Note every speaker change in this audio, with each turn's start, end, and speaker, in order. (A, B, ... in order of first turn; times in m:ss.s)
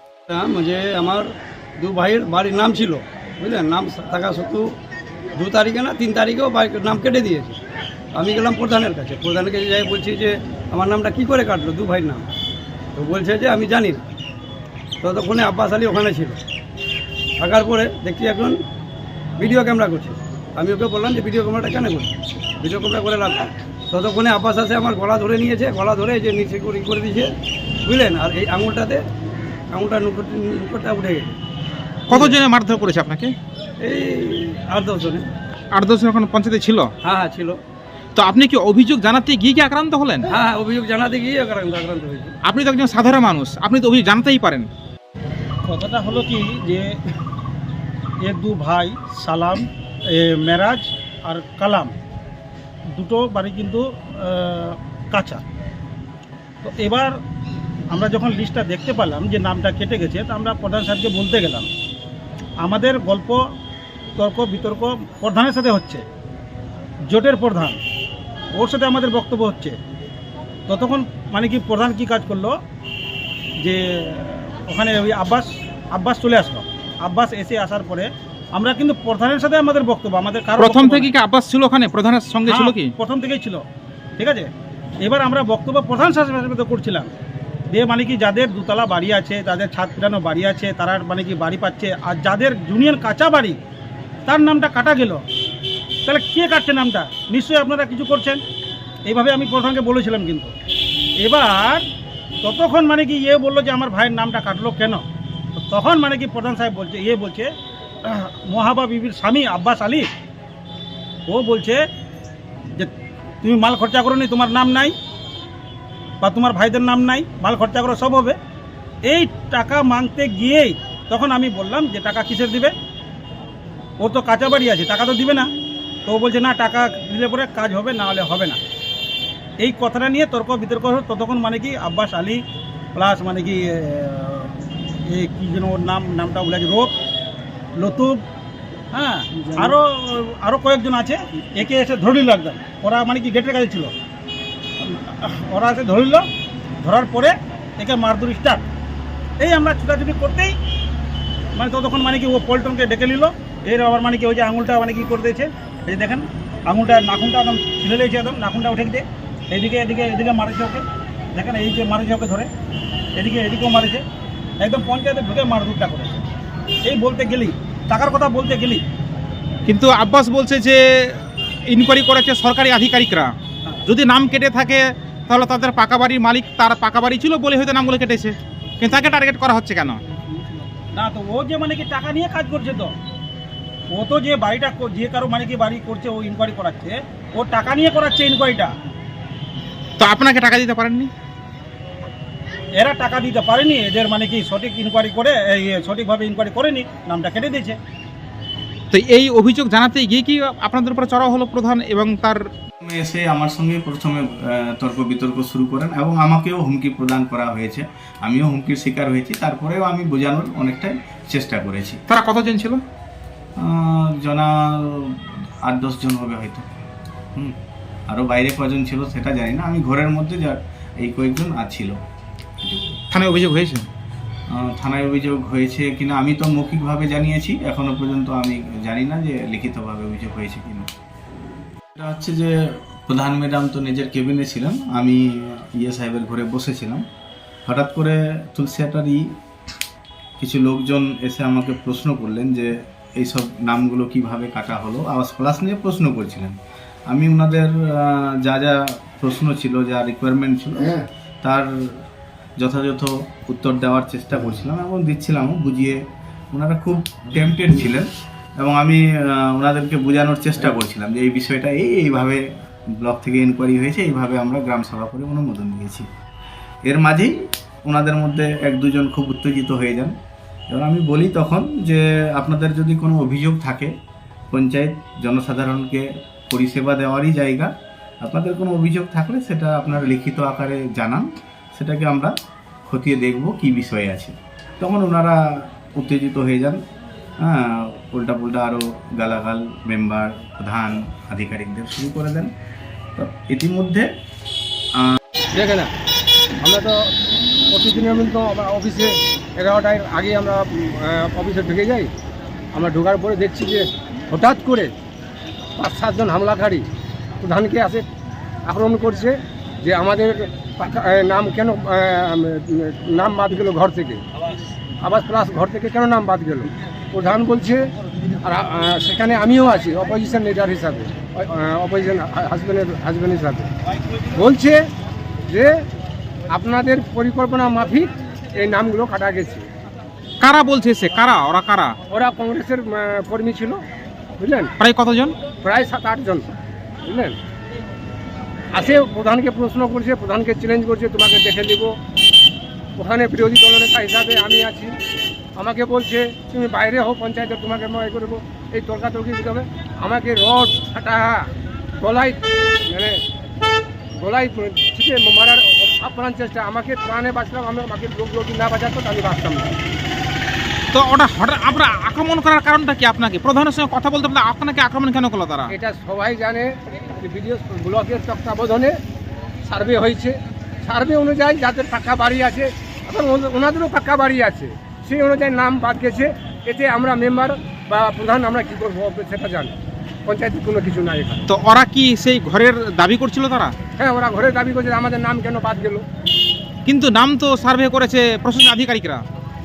0:00.3-0:01.3 A
0:01.8-0:04.6 A
0:05.3-0:07.6 A
0:08.1-0:12.3 A
0:13.0-0:14.0 A
0:15.0-0:16.4 A
0:17.4-0:18.6 A
0:19.4-0:27.3 A
0:27.8-0:29.0 A
0:29.7-0:31.3 A
0:32.1-0:33.3 B
0:32.1-0:32.4 A
0:33.8-0:35.3 A
0:35.7-0:36.9 B
0:37.0-0:37.6 A
0:38.2-0:40.3 B
0:40.3-0:42.3 A
0:42.4-0:44.7 B
0:45.7-0:46.9 C
0:48.2-0:51.9 C
0:52.9-0:55.4 C
0:56.6-0:57.1 C
0:57.9-1:01.7 C
1:02.6-1:03.4 C
1:04.2-1:06.0 C
1:07.1-1:07.8 C
1:08.5-1:09.8 C
1:10.7-1:12.5 C
1:13.6-1:21.1 C
1:20.6-1:22.9 B
1:22.5-1:23.6 C
1:24.2-1:24.5 C
1:25.0-1:27.1 C
1:27.7-1:33.6 C
1:34.2-1:35.2 C
1:36.0-1:38.4 C
1:39.0-1:40.5 C
1:41.2-1:41.8 C
1:42.4-1:45.0 C
1:45.6-1:47.5 C
1:48.0-1:50.1 C
1:51.3-1:51.8 C
1:52.7-1:54.9 C
1:56.2-1:58.4 C
1:59.0-2:02.7 C
2:04.0-2:05.5 C
2:06.0-2:08.6 C
2:09.6-2:12.4 C
2:12.9-2:14.5 C
2:15.1-2:16.9 C
2:17.8-2:18.2 C
2:18.9-2:23.9 C
2:24.8-2:26.2 C
2:26.8-2:28.6 C
2:29.4-2:30.5 C
2:31.5-2:40.8 C
2:41.3-2:42.5 C
2:43.1-2:44.0 C
2:44.6-2:46.2 C
2:46.8-2:48.8 C
2:49.7-2:53.3 B
2:53.8-3:00.0 B
3:00.9-3:02.9 C
3:03.9-3:08.7 C
3:10.0-3:11.1 B
3:12.7-3:17.8 C
3:18.9-3:22.4 B
3:22.8-3:32.0 D
3:32.1-3:32.8 B
3:33.6-3:36.7 D
3:38.1-3:42.0 D
3:43.1-3:43.8 B
3:44.5-3:50.9 D
3:51.9-3:57.0 D
3:57.6-3:59.3 D
4:00.4-4:06.5 D
4:07.1-4:12.0 D
4:12.6-4:16.0 D
4:16.5-4:22.4 D
4:23.0-4:26.0 D
4:26.8-4:30.1 D
4:30.7-4:33.9 D
4:34.5-4:37.7 D
4:38.2-4:42.3 D
4:42.8-4:46.8 D
4:47.4-4:52.5 D
4:53.2-4:54.1 D
4:55.5-4:55.9 E
4:56.6-4:57.1 E
4:57.7-5:02.1 E
5:02.7-5:04.9 E
5:05.8-5:06.8 E
5:07.4-5:08.0 E
5:08.6-5:14.2 E
5:15.0-5:17.8 E
5:18.4-5:23.7 E
5:24.3-5:24.8 E
5:25.5-5:25.7 E
5:26.5-5:29.7 E
5:30.4-5:32.0 B
5:32.1-5:33.8 E
5:34.4-5:34.7 E
5:34.8-5:35.4 B
5:35.5-5:36.5 E
5:37.0-5:37.4 E
5:38.7-5:41.9 E
5:43.0-5:44.9 E
5:45.6-5:51.5 E
5:52.0-5:53.2 E
5:54.2-5:59.8 E
6:00.9-6:05.7 B
6:05.7-6:09.0 E
6:09.6-6:19.7 E
6:20.2-6:21.5 E
6:21.5-6:23.7 B
6:24.0-6:26.0 E
6:26.8-6:29.2 B